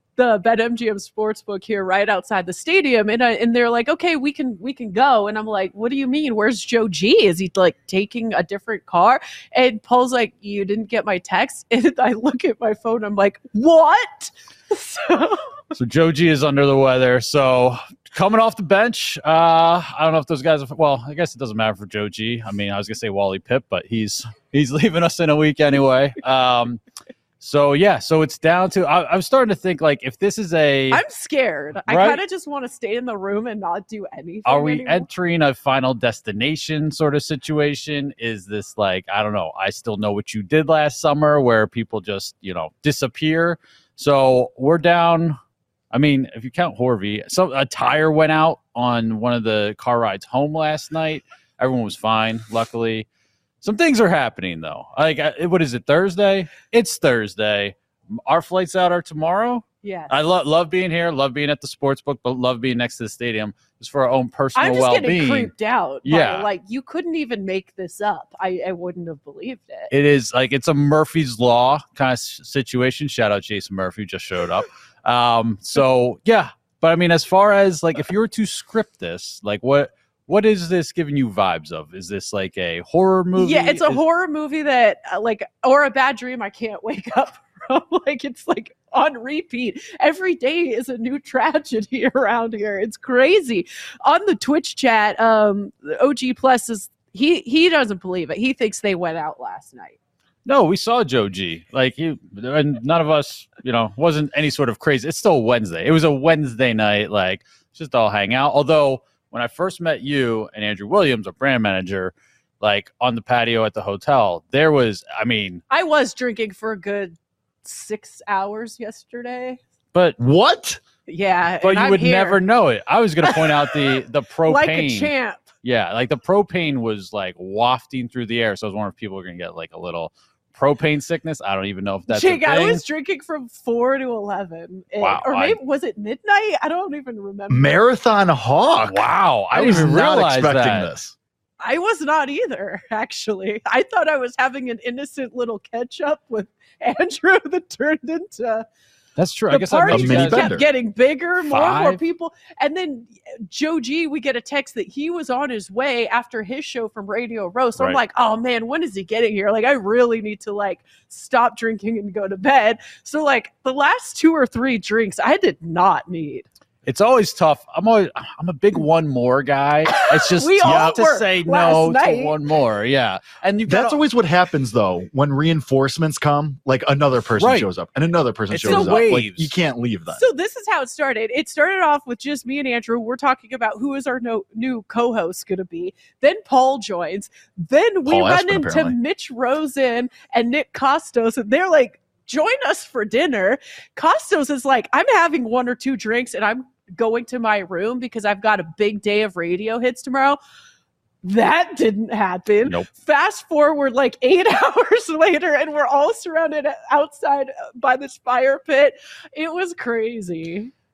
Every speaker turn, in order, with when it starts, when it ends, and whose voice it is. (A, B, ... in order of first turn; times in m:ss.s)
0:00.2-0:15.5 A
0:15.7-0:26.8 B
0:27.4-0:31.0 B
0:30.9-0:35.1 A
0:31.9-0:32.2 B
0:34.4-0:45.4 B
0:45.9-0:53.1 B
0:53.6-1:05.5 B
0:59.8-1:00.4 A
1:04.5-1:09.9 A
1:06.0-1:06.5 B
1:09.9-1:24.0 B
1:23.4-1:40.0 A
1:40.4-1:55.6 B
1:55.7-1:59.6 A
1:59.9-2:00.2 B
2:00.2-2:00.8 C
2:01.1-2:02.4 A
2:01.6-2:12.8 B
2:03.2-2:03.8 A
2:04.4-2:05.5 A
2:12.1-2:17.7 A
2:15.0-2:15.6 B
2:17.5-2:21.1 C
2:18.8-2:20.9 B
2:21.6-2:28.6 A
2:29.2-2:30.6 B
2:29.5-2:46.5 A
2:29.9-2:30.6 C
2:31.4-2:32.0 B
2:46.8-2:54.0 B
2:49.9-2:52.4 A
2:53.7-3:00.2 C
2:57.4-2:57.7 B
2:58.5-2:59.5 B
2:58.6-2:59.2 A
3:00.1-3:20.4 A
3:08.1-3:08.9 C
3:21.2-3:30.7 A